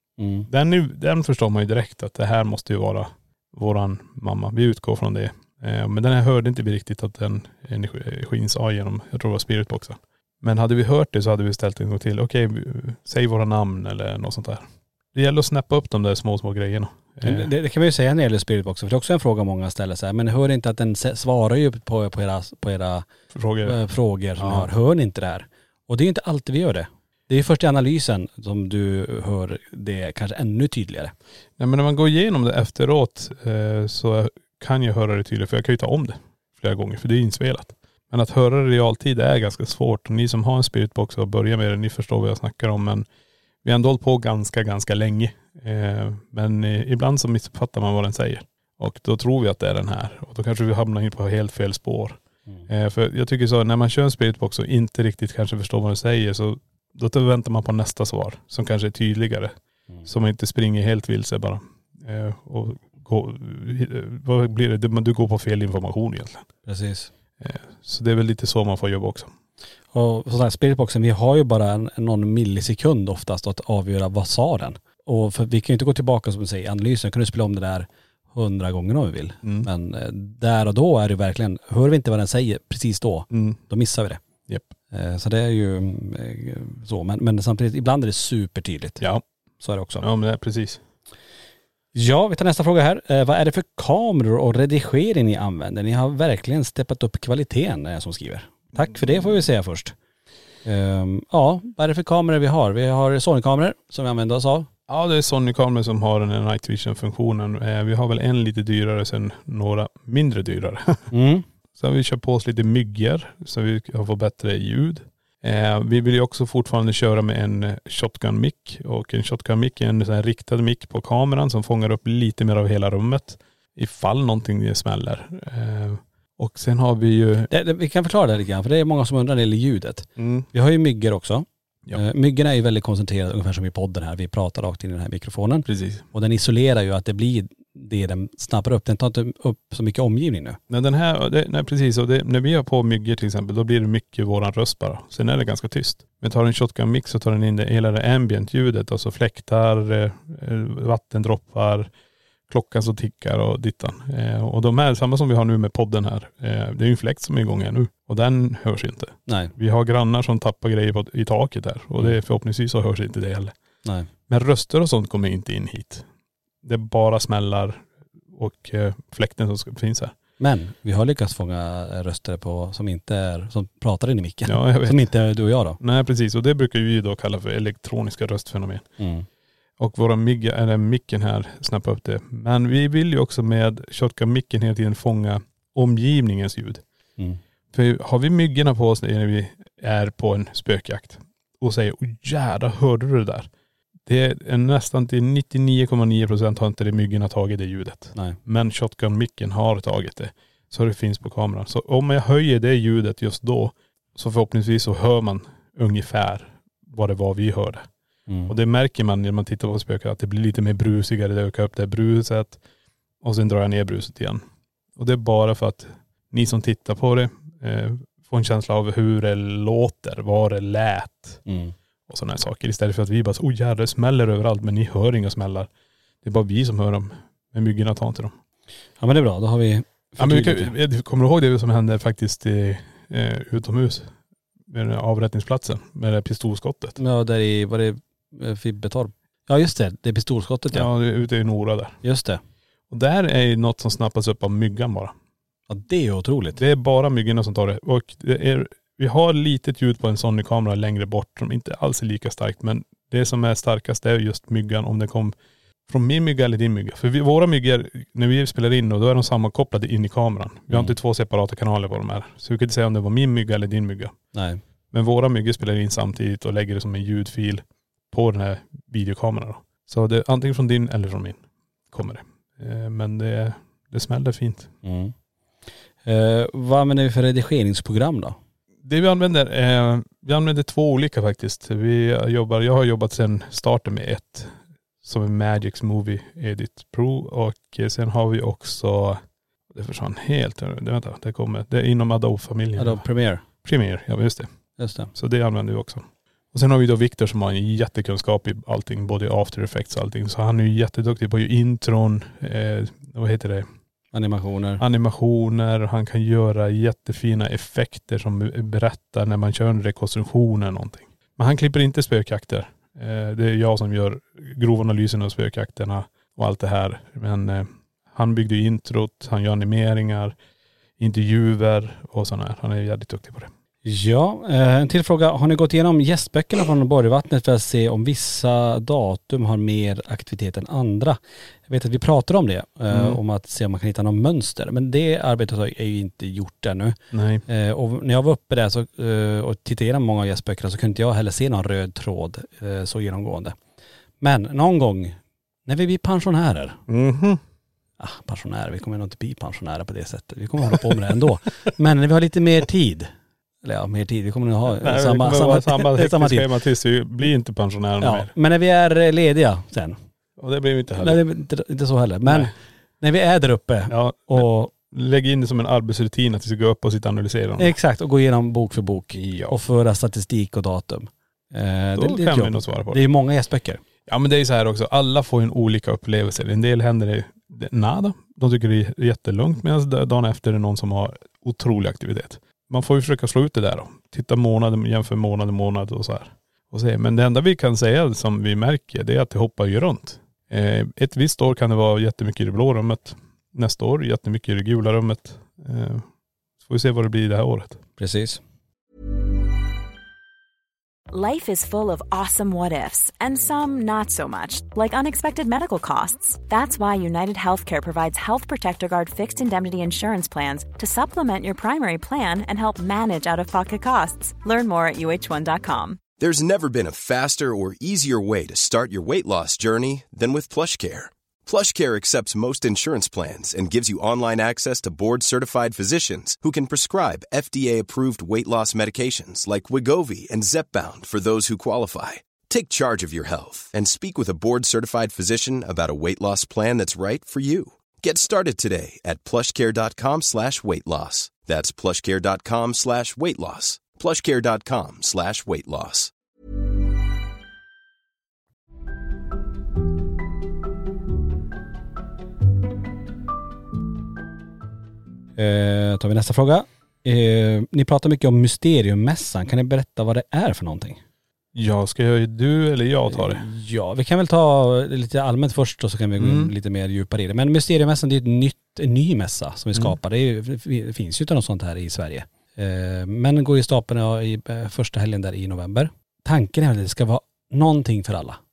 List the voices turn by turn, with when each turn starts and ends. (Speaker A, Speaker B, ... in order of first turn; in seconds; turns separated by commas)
Speaker A: 0.2-0.5, Speaker B: 0.5-17.5, Speaker A: 17.2-23.1, Speaker B: 23.3-23.8, Speaker A: 23.6-31.1, Speaker B: 24.4-24.7, Speaker B: 31.6-43.1, Speaker B: 43.6-59.5, Speaker B: 60.0-66.5, Speaker A: 66.7-67.1, Speaker B: 67.4-69.3, Speaker A: 69.9-84.2, Speaker B: 79.4-79.7, Speaker B: 83.3-83.6, Speaker A: 84.9-89.0, Speaker A: 89.6-90.0, Speaker B: 90.0-90.8, Speaker A: 91.9-99.9, Speaker A: 100.6-104.7, Speaker B: 104.9-111.1, Speaker A: 111.1-111.4, Speaker B: 111.8-127.5, Speaker A: 127.5-140.6, Speaker B: 130.2-130.5, Speaker B: 135.7-136.1, Speaker B: 140.7-151.9, Speaker B: 152.5-163.5, Speaker A: 159.3-159.5, Speaker B: 164.3-166.1, Speaker B: 166.6-170.1, Speaker A: 170.4-175.8, Speaker B: 174.5-175.1, Speaker B: 175.8-178.9, Speaker A: 179.0-179.2, Speaker B: 179.8-186.8, Speaker B: 187.7-193.5, Speaker B: 194.1-207.9, Speaker A: 208.3-208.5, Speaker B: 208.5-212.6, Speaker B: 213.2-214.4, Speaker B: 214.9-221.4, Speaker A: 221.4-221.7, Speaker B: 222.1-225.7, Speaker B: 226.2-228.3, Speaker A: 229.0-230.7, Speaker B: 230.2-234.1, Speaker B: 234.7-237.0, Speaker A: 237.0-240.9, Speaker B: 240.7-242.0, Speaker A: 242.0-242.4, Speaker B: 242.9-245.1, Speaker A: 245.7-246.6, Speaker B: 246.5-255.3, Speaker B: 255.9-264.1, Speaker A: 264.3-264.6, Speaker B: 264.9-271.4, Speaker B: 271.9-274.7, Speaker A: 274.8-275.1, Speaker A: 276.0-278.4, Speaker B: 278.8-293.1, Speaker A: 292.8-293.4, Speaker B: 293.6-294.5, Speaker A: 294.8-295.1, Speaker B: 295.1-303.7, Speaker A: 304.1-304.8, Speaker B: 304.8-320.4, Speaker B: 321.0-323.5, Speaker A: 323.8-343.6, Speaker B: 332.9-333.2, Speaker B: 337.1-337.4, Speaker A: 344.2-346.8, Speaker B: 346.9-347.4, Speaker A: 348.0-353.1, Speaker A: 353.6-356.5, Speaker B: 354.8-358.3, Speaker A: 358.0-360.0, Speaker B: 360.4-361.2, Speaker A: 361.0-364.7, Speaker B: 362.3-362.5, Speaker B: 363.9-367.7, Speaker A: 367.6-373.8, Speaker B: 369.1-369.6, Speaker B: 371.9-373.0, Speaker B: 374.1-396.0, Speaker B: 396.6-397.8, Speaker A: 398.0-398.4, Speaker C: 401.1-416.0, Speaker D: 416.2-446.1, Speaker A: 455.4-461.0, Speaker B: 461.5-463.4, Speaker A: 463.1-478.4, Speaker B: 466.2-466.5